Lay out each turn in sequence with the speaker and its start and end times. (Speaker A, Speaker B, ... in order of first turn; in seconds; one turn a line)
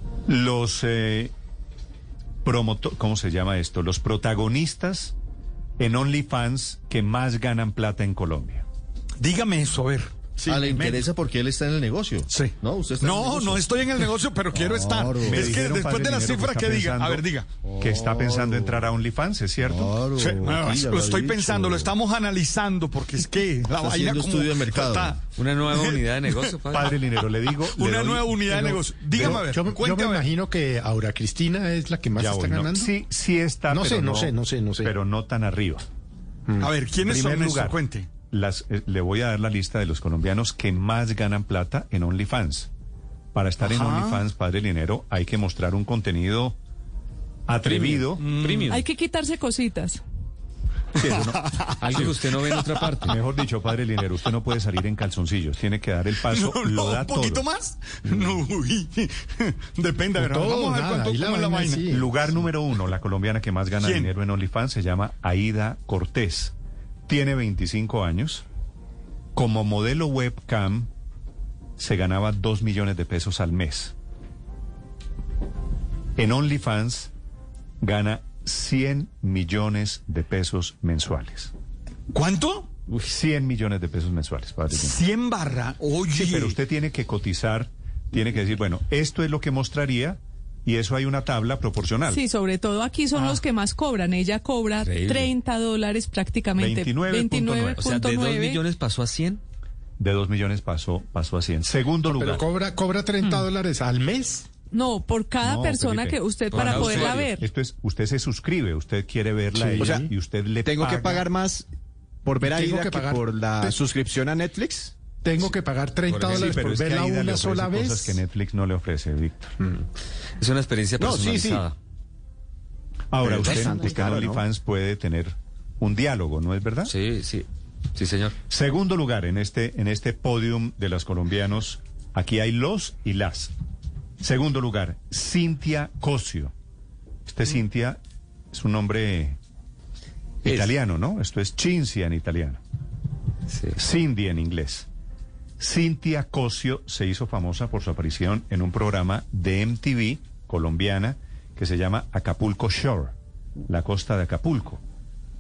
Speaker A: 0.3-1.3
Speaker A: 2.4-5.2
Speaker A: 5.8-8.6
Speaker B: 9.2-11.0
Speaker C: 10.5-13.7
Speaker B: 12.3-17.5
Speaker C: 14.5-15.6
Speaker A: 15.2-17.2
Speaker C: 17.6-18.9
Speaker A: 17.8-20.0
Speaker C: 19.6-21.9
Speaker B: 20.2-26.5
Speaker C: 23.7-25.2
Speaker D: 25.4-26.9
Speaker A: 26.7-28.4
Speaker B: 27.7-30.2
Speaker E: 28.5-32.9
Speaker A: 29.1-29.5
Speaker A: 32.1-35.9
Speaker E: 33.7-34.9
Speaker B: 36.6-38.1
Speaker A: 37.0-42.7
Speaker A: 43.3-46.6
Speaker B: 43.6-44.2
Speaker A: 47.5-48.3
Speaker D: 47.6-48.9
Speaker B: 48.2-48.7
Speaker F: 48.7-50.0
Speaker B: 51.0-53.0
Speaker D: 51.8-53.2
Speaker A: 53.1-57.5
Speaker B: 56.2-61.9
Speaker E: 60.2-62.3
Speaker A: 61.9-66.5
Speaker B: 63.8-64.1
Speaker A: 67.1-68.5
Speaker A: 69.3-70.9
Speaker A: 71.8-74.0
Speaker A: 76.2-77.1
Speaker A: 77.8-81.5
Speaker B: 82.1-82.7
Speaker A: 83.0-85.0
Speaker B: 84.8-86.6
Speaker A: 86.1-92.2
Speaker F: 92.1-98.6
Speaker D: 94.8-95.3
Speaker A: 96.6-97.8
Speaker D: 97.8-99.4
Speaker A: 100.0-102.5
Speaker E: 102.0-104.5
Speaker F: 104.7-107.5
Speaker A: 105.4-111.3
Speaker D: 106.5-107.3
Speaker E: 109.6-110.1
Speaker G: 109.8-110.1
Speaker G: 110.6-111.7
Speaker G: 112.2-114.9
Speaker E: 112.4-113.8
Speaker E: 115.1-118.2
Speaker D: 116.1-116.6
Speaker A: 116.3-119.5
Speaker D: 120.4-121.8
Speaker G: 121.0-121.6
Speaker A: 123.1-127.0
Speaker G: 123.2-124.4
Speaker D: 126.8-128.4
Speaker A: 128.5-133.5
Speaker A: 134.2-136.5
Speaker A: 137.3-138.0
Speaker A: 138.5-139.4
Speaker A: 140.4-142.6
Speaker D: 143.5-143.8
Speaker A: 143.8-144.9
Speaker A: 145.6-153.1
Speaker A: 153.7-154.8